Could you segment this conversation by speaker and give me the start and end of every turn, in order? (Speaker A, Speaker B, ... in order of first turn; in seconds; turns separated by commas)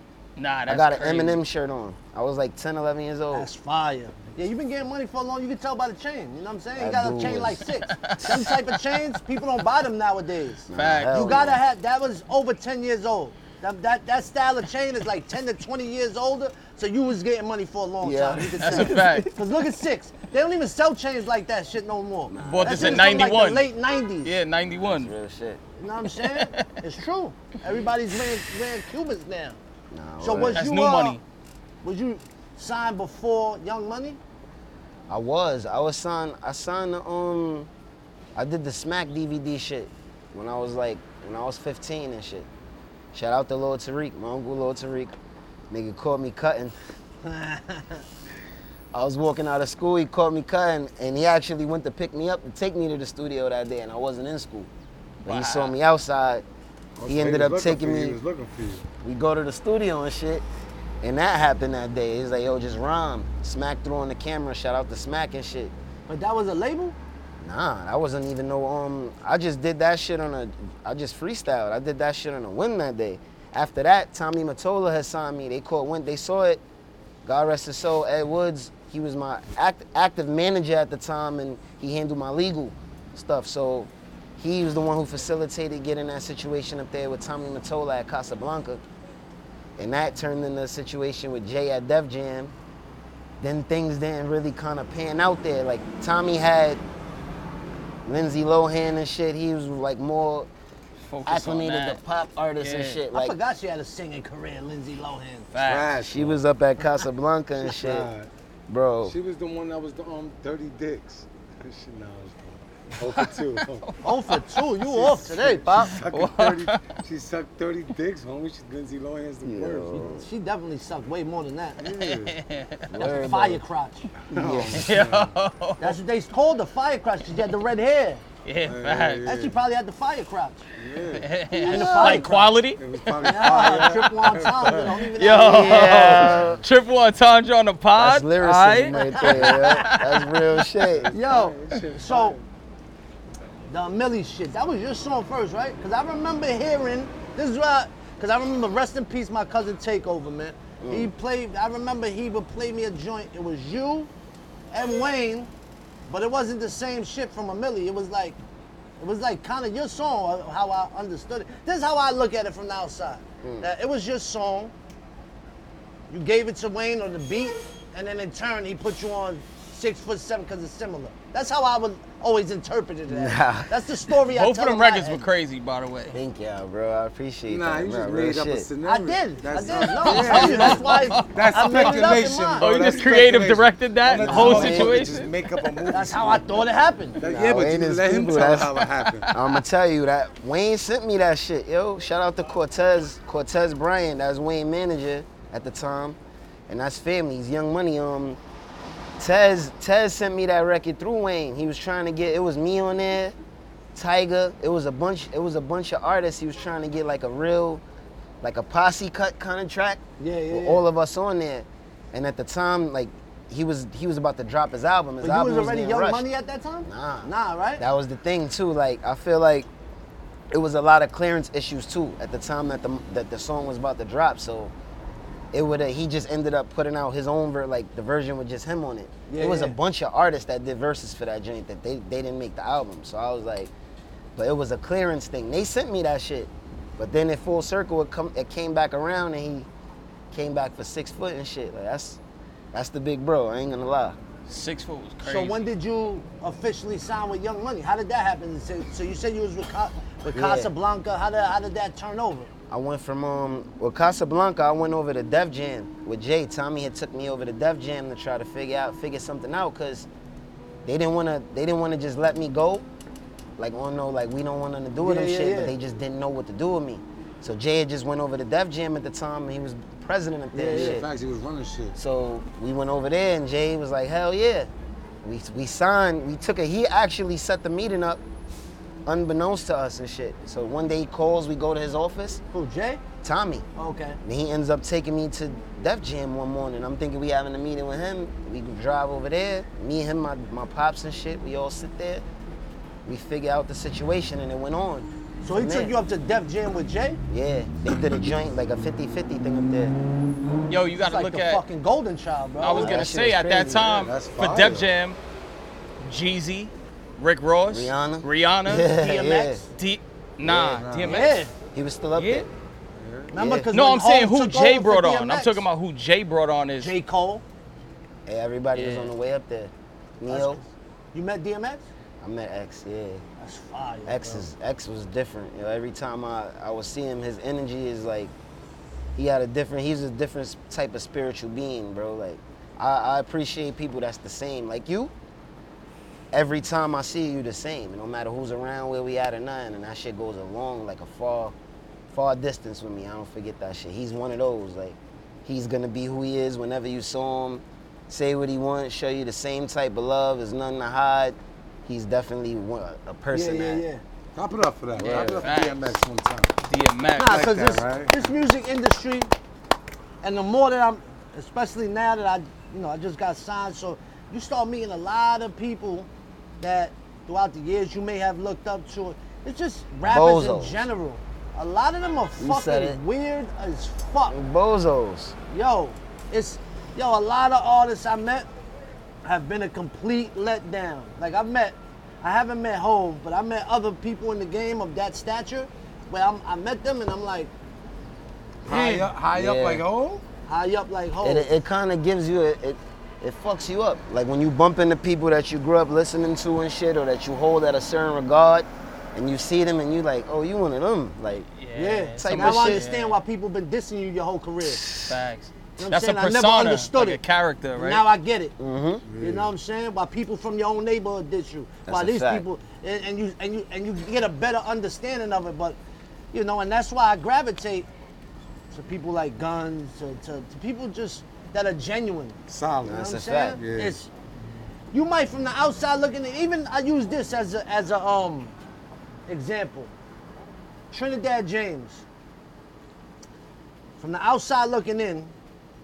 Speaker A: 0.4-1.4, Speaker B: 0.7-3.5, Speaker C: 3.3-24.4, Speaker B: 6.8-7.6, Speaker A: 7.9-8.9, Speaker B: 10.7-11.6, Speaker A: 10.7-11.3, Speaker B: 18.0-19.3, Speaker A: 18.6-19.3, Speaker B: 22.3-23.4, Speaker A: 22.4-23.7, Speaker A: 24.2-25.1, Speaker B: 24.6-25.6, Speaker C: 25.8-29.6, Speaker A: 26.2-26.6, Speaker B: 29.9-30.7, Speaker C: 30.2-31.2, Speaker A: 30.6-31.2, Speaker C: 31.8-34.2, Speaker B: 35.1-37.7, Speaker B: 38.4-42.5, Speaker B: 43.1-45.1, Speaker B: 45.7-46.8, Speaker C: 47.2-48.0, Speaker B: 48.9-54.7, Speaker A: 55.2-55.8, Speaker B: 55.3-56.5, Speaker D: 57.0-58.9, Speaker B: 57.0-58.2, Speaker B: 59.0-60.5, Speaker B: 61.0-65.7, Speaker C: 66.1-67.0, Speaker B: 67.4-76.6, Speaker B: 77.2-88.8, Speaker B: 89.8-92.5, Speaker B: 93.4-96.8, Speaker B: 98.0-100.5, Speaker A: 101.0-102.0, Speaker B: 101.2-103.4, Speaker A: 102.6-103.0, Speaker C: 103.1-105.5, Speaker A: 105.5-105.9, Speaker D: 105.7-106.4, Speaker B: 106.0-108.1, Speaker D: 107.6-108.3, Speaker B: 108.7-109.2, Speaker D: 109.0-113.9, Speaker A: 113.1-114.4, Speaker C: 114.0-116.0, Speaker D: 114.8-120.1, Speaker A: 115.8-116.8, Speaker B: 119.4-120.3, Speaker C: 120.1-121.9, Speaker D: 121.8-122.3, Speaker A: 122.0-123.1, Speaker B: 122.9-123.6, Speaker C: 123.0-124.1, Speaker D: 124.3-125.3, Speaker B: 124.3-124.9, Speaker A: 124.7-126.0, Speaker C: 125.8-128.2, Speaker A: 128.4-129.3, Speaker D: 128.6-129.6, Speaker C: 129.2-130.6, Speaker D: 130.8-131.3, Speaker A: 131.2-133.4, Speaker C: 131.6-132.5, Speaker B: 131.7-132.3, Speaker D: 131.9-135.0, Speaker C: 133.2-136.3, Speaker A: 135.2-140.3, Speaker B: 135.5-136.6, Speaker D: 136.3-136.6, Speaker B: 138.0-141.1, Speaker D: 140.9-142.4, Speaker C: 141.1-142.4, Speaker C: 143.7-154.1, Speaker B: 150.8-151.1, Speaker C: 154.7-155.5, Speaker C: 156.1-158.4, Speaker C: 159.0-164.7, Speaker B: 163.4-163.7, Speaker C: 166.1-175.3, Speaker B: 173.1-173.8, Speaker A: 174.3-176.2, Speaker B: 176.1-178.7, Speaker D: 177.5-186.7, Speaker C: 178.8-182.8, Speaker A: 179.9-185.9, Speaker B: 184.1-185.2, Speaker C: 185.9-187.2, Speaker D: 187.2-189.3, Speaker B: 187.2-188.8, Speaker A: 188.8-189.5, Speaker B: 189.3-196.2, Speaker B: 196.7-198.4, Speaker B: 199.2-203.4, Speaker B: 203.9-207.8, Speaker B: 208.4-216.3, Speaker C: 210.2-210.8, Speaker C: 215.2-217.8, Speaker B: 216.8-219.7, Speaker B: 220.5-224.7, Speaker B: 225.5-233.7, Speaker C: 229.3-229.8, Speaker B: 234.4-239.7, Speaker B: 240.3-242.2, Speaker B: 242.7-244.2, Speaker A: 244.5-245.6, Speaker C: 245.2-252.5, Speaker B: 250.3-250.7, Speaker B: 252.7-260.1, Speaker B: 260.9-262.9, Speaker B: 263.6-271.1, Speaker C: 265.0-265.8, Speaker C: 270.5-271.0, Speaker D: 270.7-272.0, Speaker B: 271.9-274.7, Speaker B: 275.2-278.2, Speaker B: 279.1-282.4, Speaker C: 282.5-283.0, Speaker B: 283.2-283.7, Speaker C: 283.8-284.2, Speaker B: 284.2-292.2, Speaker B: 293.1-295.9, Speaker C: 295.4-297.2, Speaker B: 297.3-300.0, Speaker A: 300.7-301.6, Speaker C: 301.0-303.0, Speaker A: 302.6-305.2, Speaker B: 302.6-303.9, Speaker D: 303.8-304.9, Speaker A: 306.0-308.9, Speaker B: 307.7-309.6, Speaker C: 308.9-309.7, Speaker A: 309.8-311.5, Speaker B: 310.4-310.8, Speaker D: 310.8-311.3, Speaker C: 311.1-311.5, Speaker B: 311.7-312.5, Speaker A: 312.2-312.5, Speaker D: 313.0-313.3, Speaker C: 313.3-315.7, Speaker B: 313.3-313.7, Speaker A: 313.7-316.9, Speaker C: 316.8-317.4, Speaker B: 318.3-320.6, Speaker A: 318.7-319.1, Speaker C: 320.3-321.9, Speaker B: 322.2-323.2, Speaker C: 323.4-324.4, Speaker B: 324.1-328.3, Speaker B: 329.2-335.1, Speaker B: 336.3-341.6, Speaker B: 342.1-353.8, Speaker C: 353.3-354.0, Speaker D: 354.4-356.5, Speaker A: 355.0-356.0, Speaker B: 355.0-355.4, Speaker A: 356.6-357.5, Speaker C: 357.1-359.3, Speaker D: 357.3-358.3, Speaker C: 360.2-366.1, Speaker C: 366.6-374.4, Speaker B: 370.1-370.9, Speaker B: 372.4-373.0, Speaker B: 374.3-375.4, Speaker C: 375.5-378.5, Speaker C: 379.2-387.5, Speaker C: 388.6-389.1, Speaker D: 388.6-390.2, Speaker B: 389.3-389.9, Speaker C: 390.5-391.5, Speaker B: 391.2-401.5, Speaker A: 401.6-403.2, Speaker C: 401.7-404.9, Speaker B: 402.2-402.8, Speaker B: 404.6-405.1, Speaker A: 405.0-408.0, Speaker C: 405.8-407.2, Speaker C: 407.8-408.6, Speaker B: 408.6-409.0, Speaker D: 409.1-409.5, Speaker C: 409.2-415.8, Speaker B: 411.9-412.5, Speaker C: 416.3-417.9, Speaker C: 418.7-424.1, Speaker D: 422.5-423.1, Speaker B: 422.8-423.6, Speaker D: 423.6-424.0, Speaker C: 424.9-428.5, Speaker C: 429.3-429.9, Speaker C: 430.9-432.0, Speaker C: 434.0-435.3